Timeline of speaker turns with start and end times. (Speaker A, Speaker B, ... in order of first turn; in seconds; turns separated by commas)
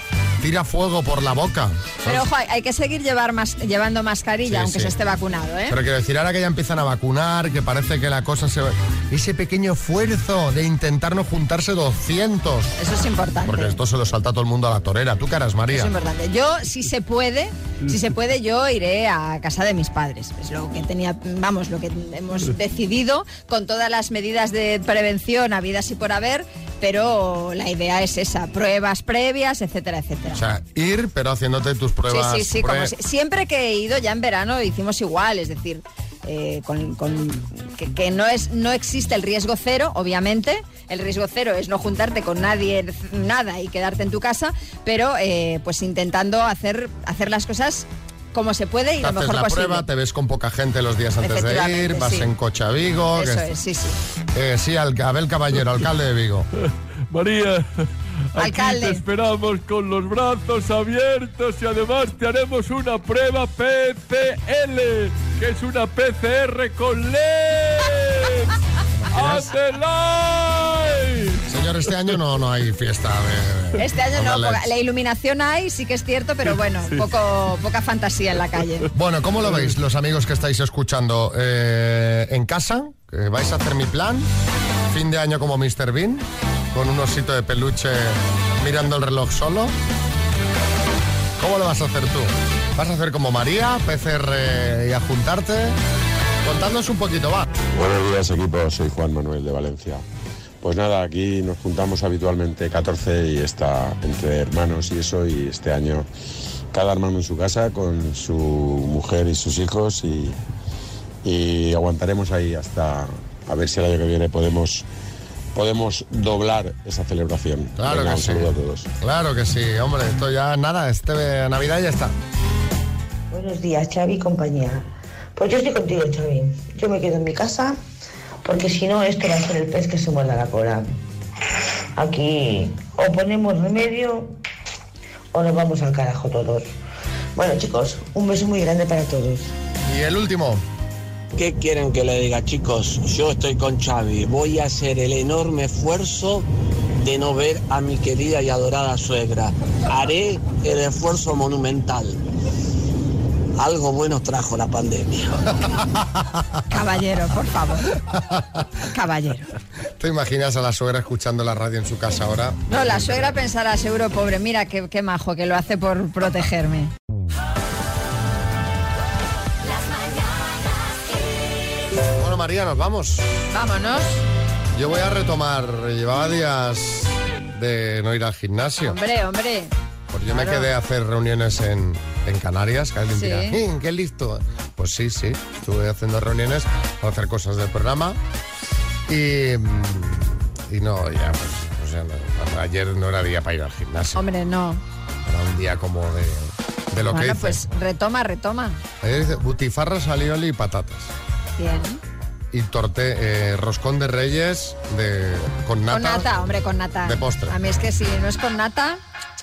Speaker A: 0.4-2.3, Speaker B: 2.0-5.8, Speaker A: 4.5-4.9, Speaker A: 5.7-12.8, Speaker B: 12.8-13.8, Speaker A: 13.4-15.9, Speaker B: 15.7-30.4, Speaker A: 30.3-32.9, Speaker B: 32.1-49.9, Speaker A: 49.0-53.5, Speaker B: 51.2-52.3, Speaker B: 53.2-54.0, Speaker A: 54.3-56.5, Speaker C: 57.1-57.7, Speaker C: 58.3-68.5, Speaker B: 58.4-59.0, Speaker A: 69.0-69.5, Speaker C: 69.1-71.4, Speaker A: 71.5-74.6, Speaker B: 73.8-78.9, Speaker A: 78.9-84.3, Speaker A: 84.9-89.7, Speaker A: 91.4-95.8, Speaker A: 96.4-97.5, Speaker D: 97.7-100.0, Speaker D: 100.6-106.1, Speaker D: 106.7-110.4, Speaker D: 111.2-114.9, Speaker D: 115.5-118.9, Speaker A: 117.8-122.1, Speaker E: 123.3-127.8, Speaker E: 128.4-130.8, Speaker E: 132.0-134.3, Speaker E: 135.3-136.7, Speaker E: 137.3-139.5, Speaker A: 139.9-140.6, Speaker F: 141.3-146.5, Speaker F: 147.0-152.2, Speaker F: 153.6-155.3, Speaker B: 156.7-158.0, Speaker B: 158.9-159.5, Speaker A: 160.0-163.3, Speaker B: 162.7-166.9, Speaker A: 172.2-173.3, Speaker B: 173.5-174.2, Speaker A: 174.8-179.0, Speaker B: 178.8-179.7, Speaker A: 180.1-188.2, Speaker B: 180.3-180.7, Speaker B: 183.2-183.6, Speaker A: 189.1-194.2, Speaker B: 194.2-194.8, Speaker A: 195.3-197.7, Speaker B: 197.1-198.8, Speaker A: 199.0-201.1, Speaker B: 201.6-202.0, Speaker A: 202.5-206.3, Speaker B: 205.9-209.0, Speaker A: 207.1-207.6